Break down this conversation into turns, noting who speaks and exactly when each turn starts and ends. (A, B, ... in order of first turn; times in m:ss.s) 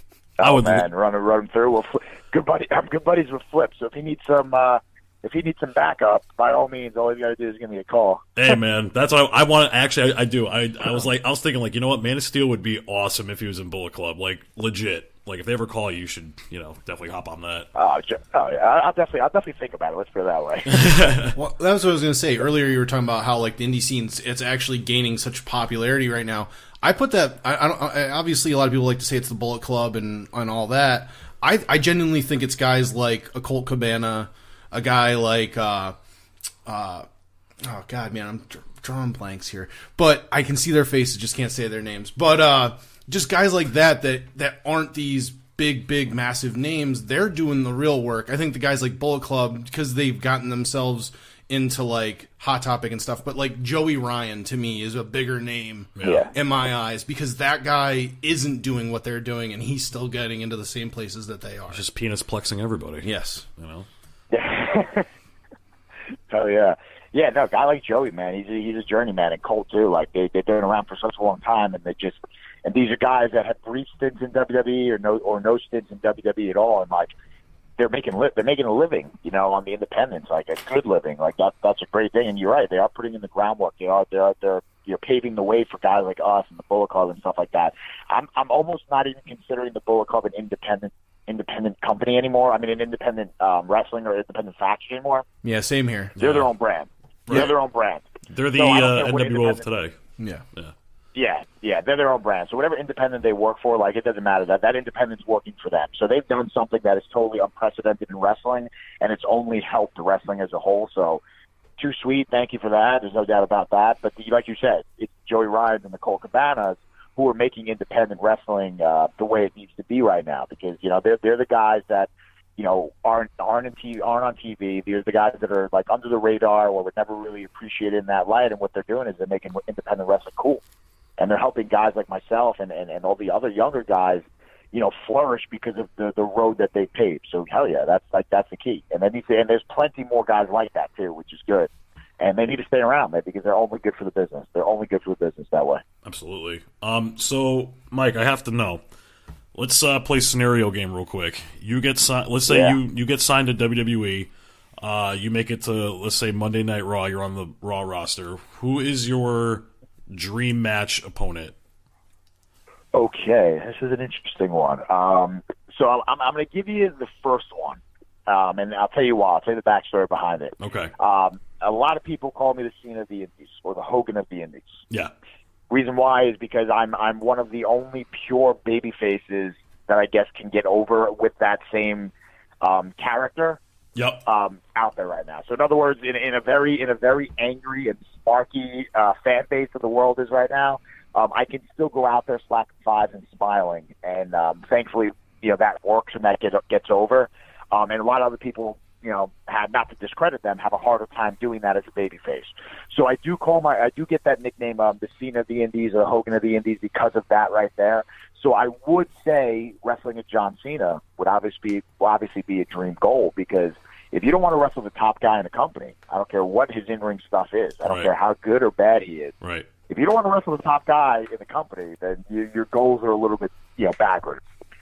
0:00.4-0:08.5 A
0:00.4-0:00.9 B
0:08.4-0:17.7 B
0:17.7-0:20.8 A
0:20.7-0:21.4 B
0:21.3-0:36.0 C
0:36.6-0:37.1 C
0:37.6-1:01.8 C
0:56.0-0:56.3 B
0:56.0-0:56.3 A
1:01.7-1:03.9 B
1:03.0-1:03.4 C
1:04.3-1:05.1 A
1:06.3-1:17.1 A
1:17.8-1:35.2 A
1:35.4-1:36.1 C
1:36.2-1:36.5 B
1:36.2-1:39.6 A
1:37.3-1:37.5 B
1:38.3-1:39.9 B
1:40.2-1:40.4 C
1:41.1-1:51.2 A
1:51.8-2:10.6 A
2:11.2-2:25.8 A
2:26.0-2:28.8 B
2:29.5-2:41.5 B
2:32.5-2:32.8 A
2:42.9-2:54.8 A
2:50.6-2:50.9 B
2:55.7-3:03.6 A
3:03.9-3:04.2 B
3:04.2-3:39.3 A
3:39.4-3:39.7 B
3:39.9-3:44.4 A